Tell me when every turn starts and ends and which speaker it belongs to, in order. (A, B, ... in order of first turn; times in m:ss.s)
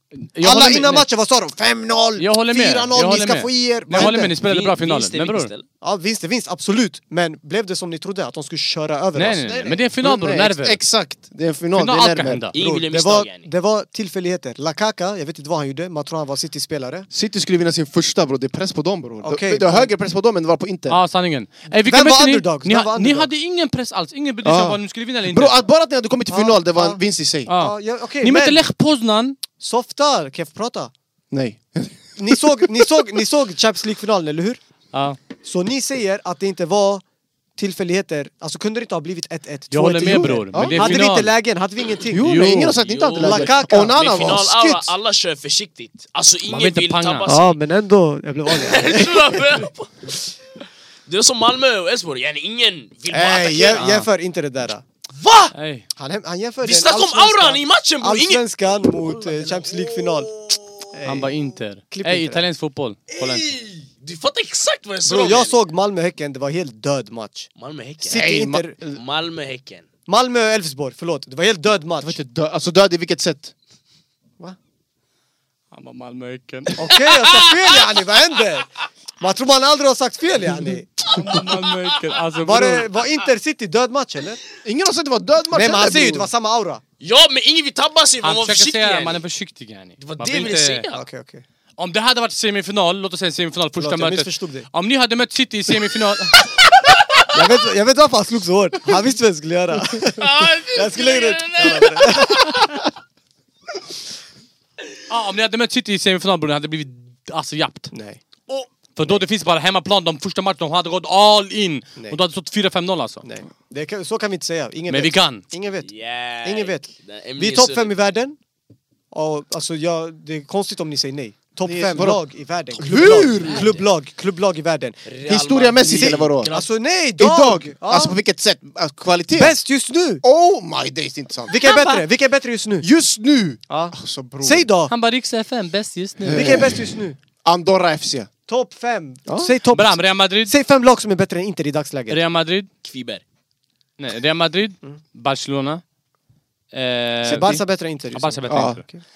0:00.2-0:01.0 A
0:00.4-0:04.3 B
0:02.2-0:05.5 A
0:03.9-0:04.3 C
0:04.4-0:05.6 D
0:05.8-0:09.5 B
0:09.1-0:10.8 A
0:09.4-0:12.5 C
0:11.8-0:12.5 A
0:12.5-0:13.5 D
0:12.6-0:17.1 B
0:17.1-0:21.0 C
0:19.2-0:19.9 B
0:20.9-0:25.5 A
0:21.8-0:23.3 B
0:24.4-0:27.5 C
0:26.3-0:28.6 B
0:27.5-0:29.4 A
0:29.6-0:30.9 B
0:31.3-0:32.4 C
0:32.2-0:34.6 B
0:34.9-0:35.2 A
0:35.4-0:37.0 B
0:37.6-0:42.5 B
0:39.7-0:41.3 A
0:40.1-0:41.0 C
0:42.1-0:44.9 C
0:42.2-0:42.8 A
0:42.8-0:47.6 D
0:43.1-0:44.3 B
0:46.4-0:47.3 A
0:47.3-0:49.7 B
0:48.5-0:50.2 D
0:51.1-0:53.9 D
0:53.1-0:54.8 B
0:53.8-0:54.1 A
0:55.1-0:55.5 D
0:55.5-0:55.8 A
0:56.0-1:00.4 B
0:56.6-1:00.9 D
1:00.9-1:01.3 B
1:01.0-1:03.5 A
1:01.9-1:02.4 B
1:03.1-1:05.6 D
1:05.0-1:08.8 B
1:07.6-1:08.3 D
1:08.1-1:09.0 C
1:08.9-1:09.8 D
1:10.1-1:12.2 B
1:12.0-1:13.5 C
1:15.7-1:17.4 A
1:16.8-1:18.7 B
1:19.2-1:21.4 B
1:21.1-1:22.9 A
1:21.1-1:22.1 D
1:22.4-1:24.4 B
1:24.6-1:26.3 C
1:25.5-1:26.8 B
1:27.0-1:29.2 D
1:28.2-1:30.8 A
1:30.0-1:31.0 D
1:30.9-1:31.4 B
1:31.8-1:36.4 A
1:33.8-1:34.7 B
1:37.3-1:42.8 B
1:40.2-1:42.6 D
1:45.1-1:47.9 A
1:47.9-1:48.2 B
1:49.0-1:53.2 A
1:53.2-1:55.9 B
1:54.9-1:55.4 A
1:55.8-1:57.9 D
1:56.4-1:58.4 B
1:59.1-2:05.0 B
2:01.6-2:02.2 C
2:02.8-2:03.7 C
2:02.9-2:03.8 D
2:05.0-2:06.7 D
2:05.3-2:06.5 C
2:05.8-2:08.2 B
2:07.2-2:09.6 C
2:09.3-2:10.2 B
2:10.2-2:11.6 C
2:11.5-2:12.9 B
2:11.6-2:11.9 A
2:12.8-2:14.6 C
2:13.7-2:14.9 B
2:14.9-2:16.6 A
2:16.2-2:16.8 C
2:16.3-2:17.2 B
2:17.4-2:18.3 C
2:18.5-2:22.2 B
2:19.3-2:19.5 C
2:19.7-2:20.5 A
2:22.1-2:22.7 A
2:22.8-2:23.2 D
2:24.0-2:25.8 A
2:26.7-2:27.6 A
2:27.2-2:29.0 B
2:28.1-2:28.8 A
2:28.5-2:28.8 C